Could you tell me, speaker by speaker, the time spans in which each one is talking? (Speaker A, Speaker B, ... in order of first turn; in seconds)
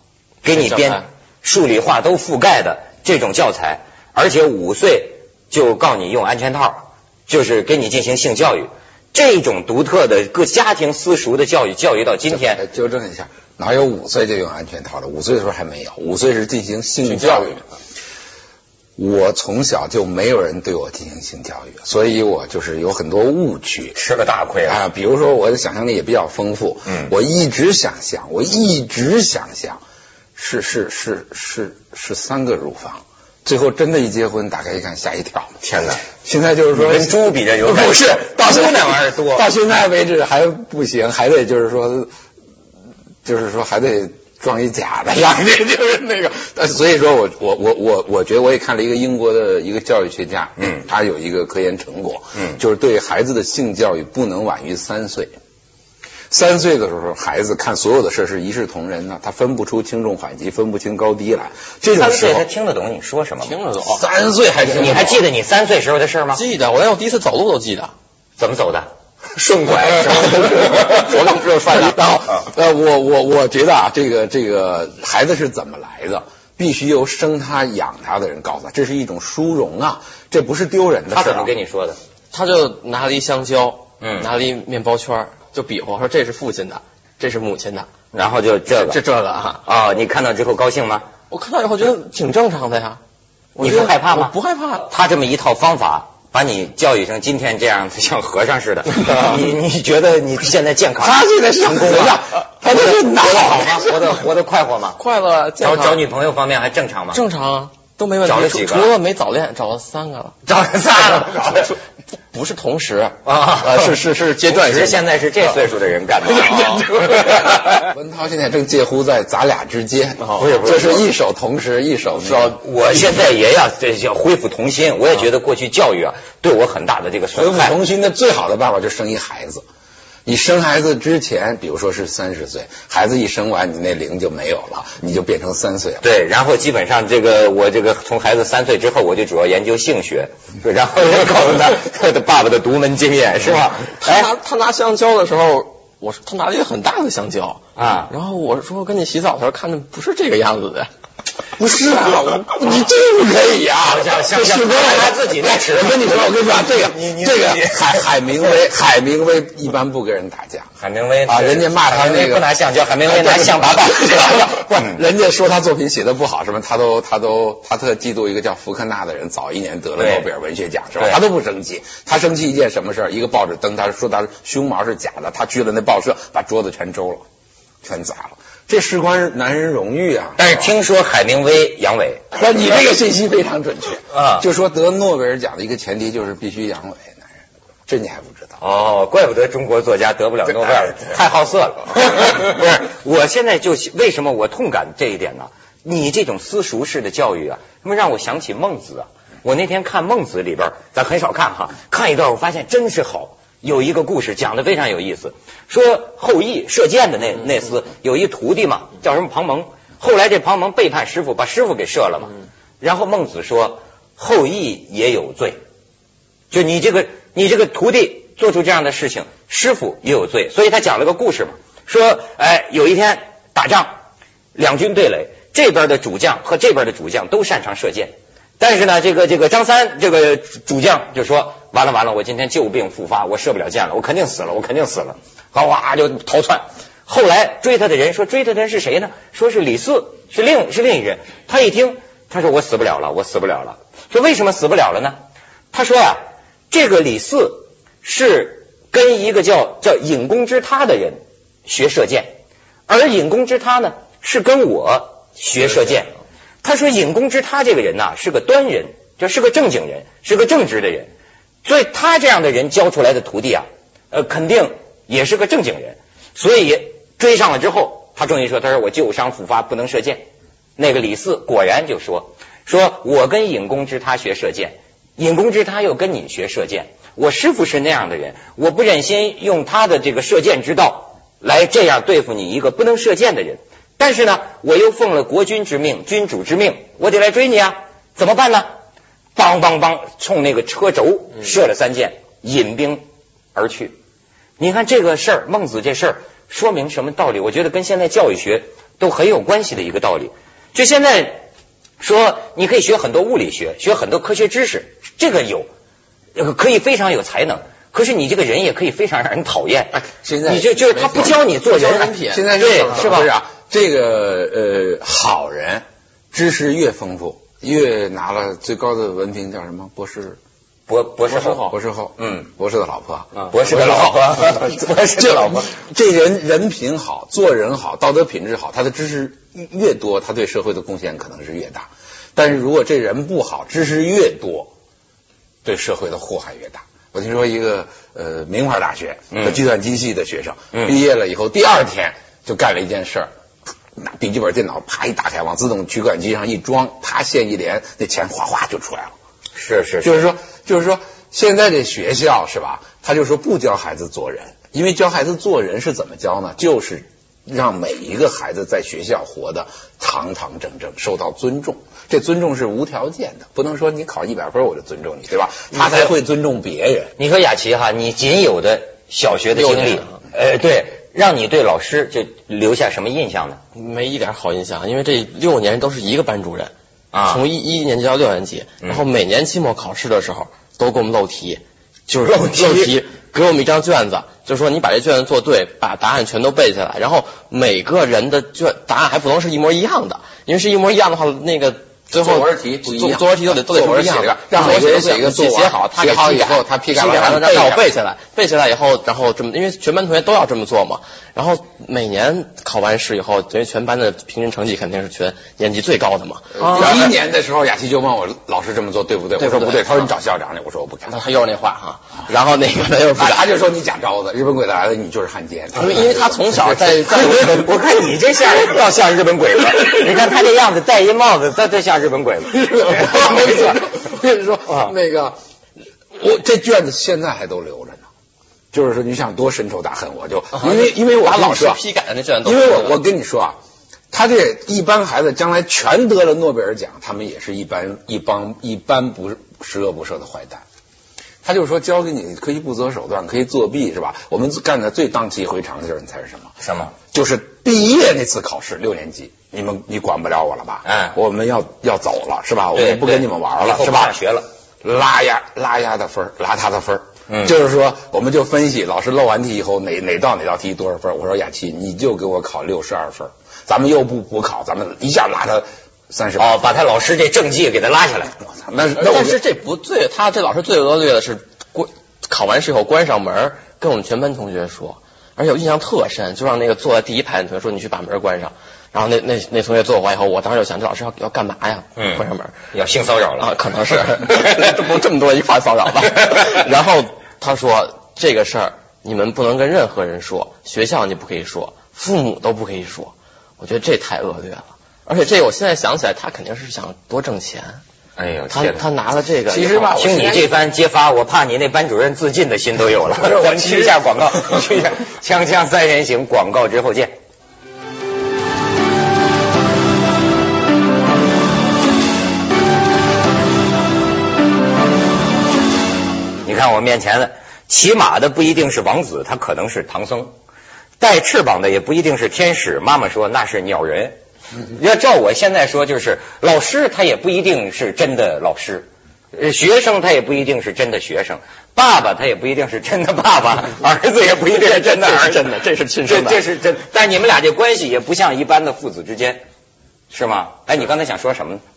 Speaker A: 0.4-12.6, 23.9-24.8, 35.6-36.0, 36.7-39.5, 61.9-63.5, 64.7-66.4, 68.4-70.9, 81.1-82.0, 84.0-84.3, 88.1-89.0, 89.6-91.1, 93.6-94.3, 94.9-105.0, 105.6-107.2, 108.2-108.9, 110.5-111.8, 113.2-117.4, 120.4-121.1, 122.2-127.8, 136.0-144.3, 147.8-148.1, 153.8-158.1, 160.8-165.0, 170.0-170.3, 180.4-182.2, 184.1-184.4, 188.6-215.6, 216.5-223.9, 224.5-245.2, 245.7-252.3, 252.9-261.1, 261.6-288.7, 289.3-293.0, 293.5-293.9, 294.6-301.4, 302.0-305.7, 306.3-313.3, 320.9-322.5, 323.4-325.7, 339.3-339.6, 349.5-350.3, 365.7-366.1, 367.2-373.6, 377.1-377.4, 382.2-383.0, 417.0-423.3, 424.7-424.9, 446.6-446.9, 450.8-451.1, 452.7-454.5, 457.3-457.5, 466.4-468.4, 482.0-483.5, 498.2-498.8, 499.9-507.1, 516.4-520.3, 521.0-539.4, 540.1-541.6
Speaker B: 0.5-1.1, 63.4-64.0, 66.3-67.9, 70.4-72.0, 82.3-87.9, 88.8-89.6, 91.3-93.0, 93.5-94.8, 105.0-106.0, 107.1-110.3, 112.3-115.5, 116.3-117.1, 143.9-150.9, 310.9-313.1, 321.3-321.7, 369.5-370.1, 373.7-376.7, 377.2-407.1, 409.4-410.0, 411.1-413.4, 415.7-417.7, 430.5-433.0, 468.9-482.6, 483.4-497.8, 498.5-500.0, 534.5-536.4
Speaker C: 12.3-17.6, 18.9-24.0, 24.6-29.8, 30.3-42.1, 43.2-55.3, 56.3-62.5, 63.8-65.3, 70.2-81.5, 101.0-104.2, 117.0-122.6, 127.3-129.6, 130.2-136.0, 151.6-160.7, 161.2-162.5, 163.0-177.2, 177.8-180.7, 182.3-187.3, 187.9-188.6, 309.9-311.4, 312.3-320.4, 321.4-334.7, 335.6-343.3, 343.9-349.1, 350.0-367.1, 392.1-397.8, 406.6-411.1, 413.1-417.0, 422.6-425.4, 426.1-428.1, 428.7-431.8, 432.4-433.6, 434.1-440.6, 441.4-454.2, 454.8-466.5, 468.4-469.4, 499.5-500.5, 503.2-504.0